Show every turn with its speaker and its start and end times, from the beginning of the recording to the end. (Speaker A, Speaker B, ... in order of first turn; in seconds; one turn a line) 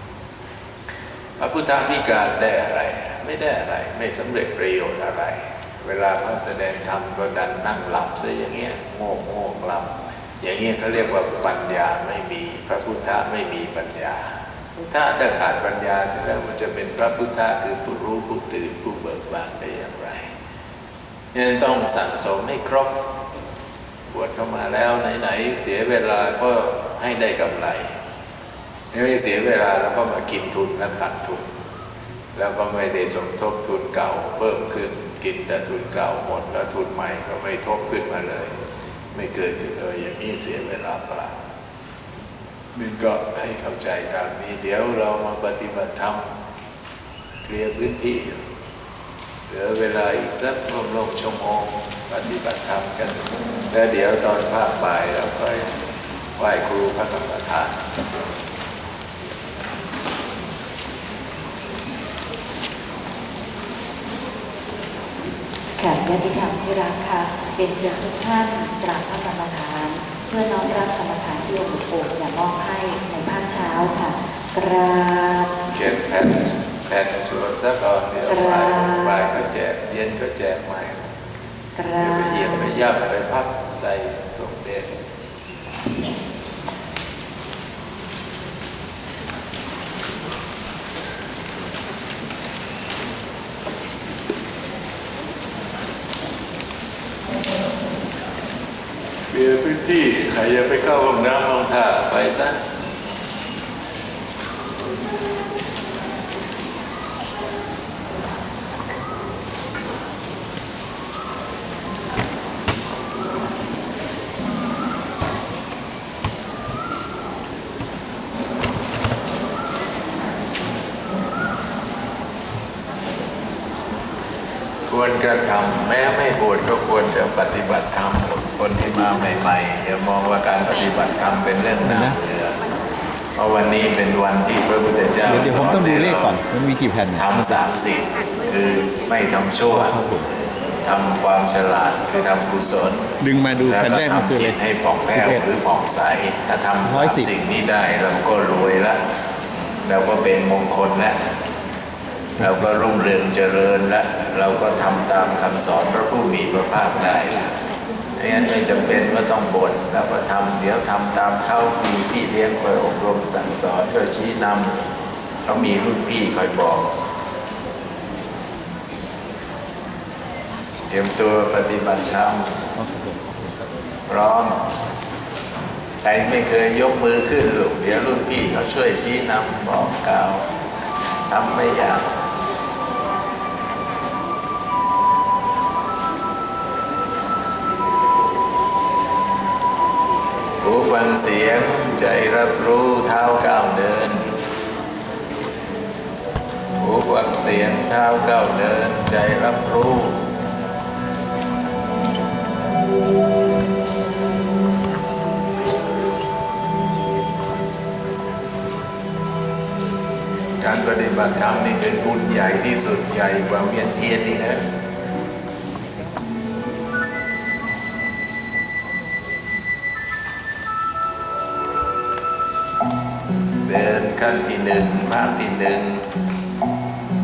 Speaker A: 1.4-14.3
Speaker A: 14.9-20.3
Speaker A: 21.3-23.0
Speaker A: 24.1-27.9
Speaker A: 28.9-31.5
Speaker A: 32.3-38.6
Speaker A: 39.1-41.4
Speaker A: 42.8-46.3
Speaker A: 47.4-48.4
Speaker A: 49.5-55.7
Speaker A: 56.4-57.8
Speaker B: 65.8-75.5
Speaker A: 75.7-81.1
Speaker B: 78.3-79.2
Speaker B: 81.8-82.7
Speaker A: 82.0-85.0
Speaker A: 99.3-102.6
Speaker A: 124.9-132.6
Speaker C: 131.9-132.2
Speaker A: 133.4-136.4
Speaker C: 135.3-137.3
Speaker A: 137.1-140.0
Speaker C: 139.8-140.3
Speaker A: 140.8-143.1
Speaker C: 143.2-144.6
Speaker A: 143.6-149.0
Speaker C: 145.2-145.4
Speaker C: 146.9-147.3
Speaker A: 149.8-151.2
Speaker A: 152.4-157.6
Speaker A: 158.2-164.8
Speaker A: 165.4-166.9
Speaker A: 170.9-172.6
Speaker A: 174.1-174.6
Speaker A: 176.0-180.5
Speaker A: 181.3-182.1
Speaker A: 190.6-194.3
Speaker A: 196.8-200.2
Speaker A: 210.6-214.6
Speaker A: 223.6-226.1